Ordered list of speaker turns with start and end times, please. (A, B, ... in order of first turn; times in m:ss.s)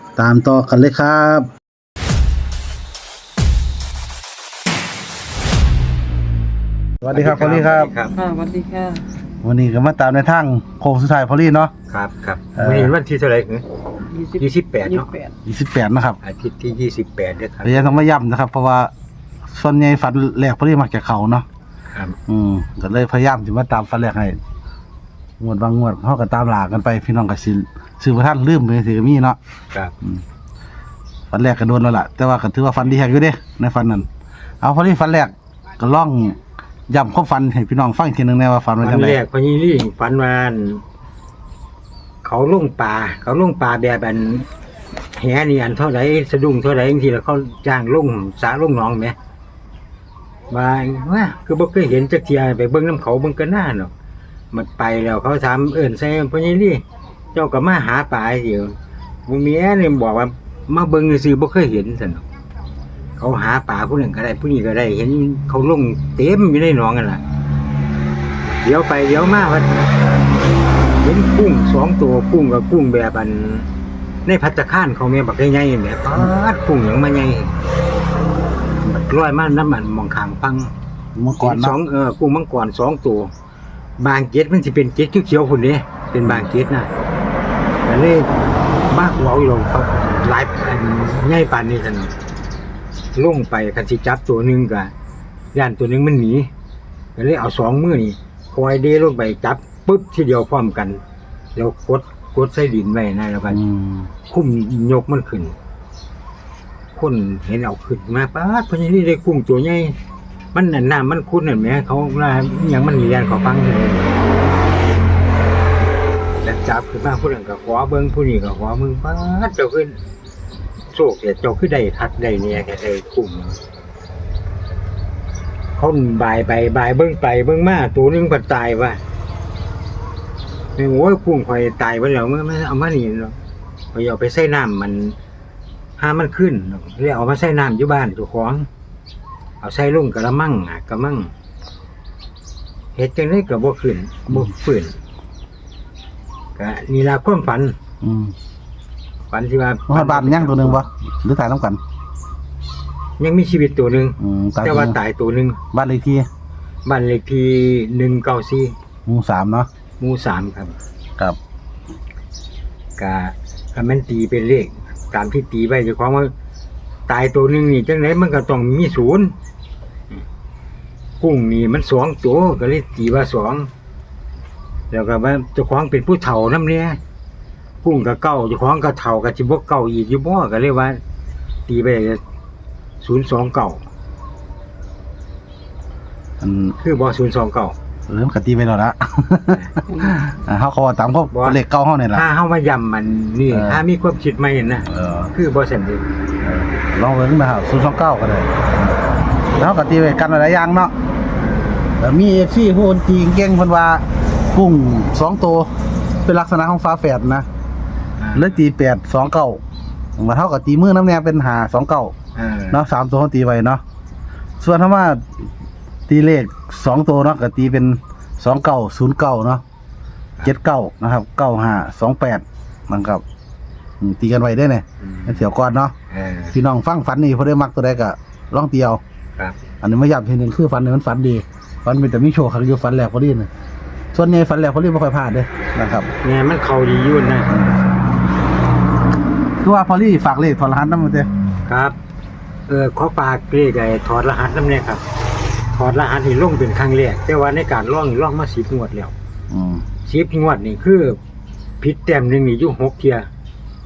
0:00.2-0:01.5 A
0:07.0-0:07.9 A
0:07.1-0:08.2 B
0:08.2-0:09.0 C
0:09.4-0:11.7 A
0:11.9-0:13.6 B
0:12.6-0:12.9 A
0:14.0-0:15.4 C
0:14.4-0:15.1 B
0:15.5-0:16.2 A
0:16.2-0:18.1 B
0:17.6-0:18.9 A
0:19.5-0:21.4 A
0:21.9-0:22.2 B
0:22.3-0:24.4 A
0:25.4-0:29.4 A
0:31.3-0:34.1 A
0:34.6-0:36.4 A
0:36.9-0:39.2 A
0:38.8-0:40.8 B
0:42.2-0:44.5 B
0:45.2-0:49.2 B
0:50.5-0:53.9 B
0:54.5-1:02.3 B
1:03.2-1:07.2 B
1:08.6-1:10.0 B
1:11.0-1:13.7 B
1:14.2-1:17.6 B
1:18.9-1:20.7 B
1:21.2-1:21.8 A
1:21.4-1:23.3 B
1:24.0-1:26.9 B
1:27.8-1:28.3 B
1:28.9-1:32.1 B
1:33.2-1:34.9 B
1:35.5-1:36.5 B
1:37.2-1:41.0 B
1:41.6-1:43.6 B
1:43.5-1:44.1 A
1:44.2-1:45.6 B
1:46.9-1:50.0 B
1:50.5-1:54.1 B
1:56.4-2:00.0 B
2:00.9-2:03.6 B
2:05.7-2:09.0 B
2:10.8-2:13.4 B
2:13.9-2:15.2 B
2:16.0-2:18.7 B
2:19.6-2:21.3 B
2:23.0-2:25.0 B
2:26.6-2:27.8 B
2:28.0-2:28.3 A
2:29.3-2:30.9 B
2:29.9-2:31.8 A
2:33.2-2:35.6 B
2:34.2-2:35.0 A
2:35.7-2:36.3 A
2:36.8-2:38.8 B
2:39.1-2:39.7 A
2:40.0-2:40.8 B
2:43.0-2:46.3 B
2:47.1-2:49.3 B
2:51.2-2:53.7 B
2:54.9-2:57.0 B
2:57.8-3:01.0 B
3:01.7-3:02.2 B
3:03.0-3:03.8 B
3:06.4-3:06.8 A
3:06.8-3:07.8 B
3:08.1-3:12.2 A
3:09.5-3:09.8 B
3:09.9-3:10.2 C
3:11.3-3:11.6 B
3:12.1-3:16.1 B
3:13.5-3:13.8 A
3:14.9-3:15.3 A
3:16.4-3:18.6 A
3:19.6-3:20.9 A
3:21.4-3:22.0 B
3:22.0-3:25.7 A
3:26.2-3:27.5 A
3:28.2-3:28.6 B
3:28.4-3:29.6 A
3:30.2-3:32.1 A
3:32.4-3:32.8 B
3:32.7-3:33.8 A
3:34.6-3:35.4 A
3:36.1-3:39.6 A
3:40.4-3:43.2 A
3:44.0-3:45.9 A
3:45.0-3:45.5 B
3:46.1-3:46.6 B
3:46.5-3:49.0 A
3:49.8-3:53.5 A
3:54.1-3:56.1 A
3:56.2-3:57.5 B
3:57.5-3:57.8 A
3:59.6-4:01.3 A
4:01.7-4:02.0 B
4:02.7-4:05.0 B
4:05.7-4:09.1 B
4:09.5-4:09.8 A
4:10.0-4:11.2 B
4:11.8-4:13.3 B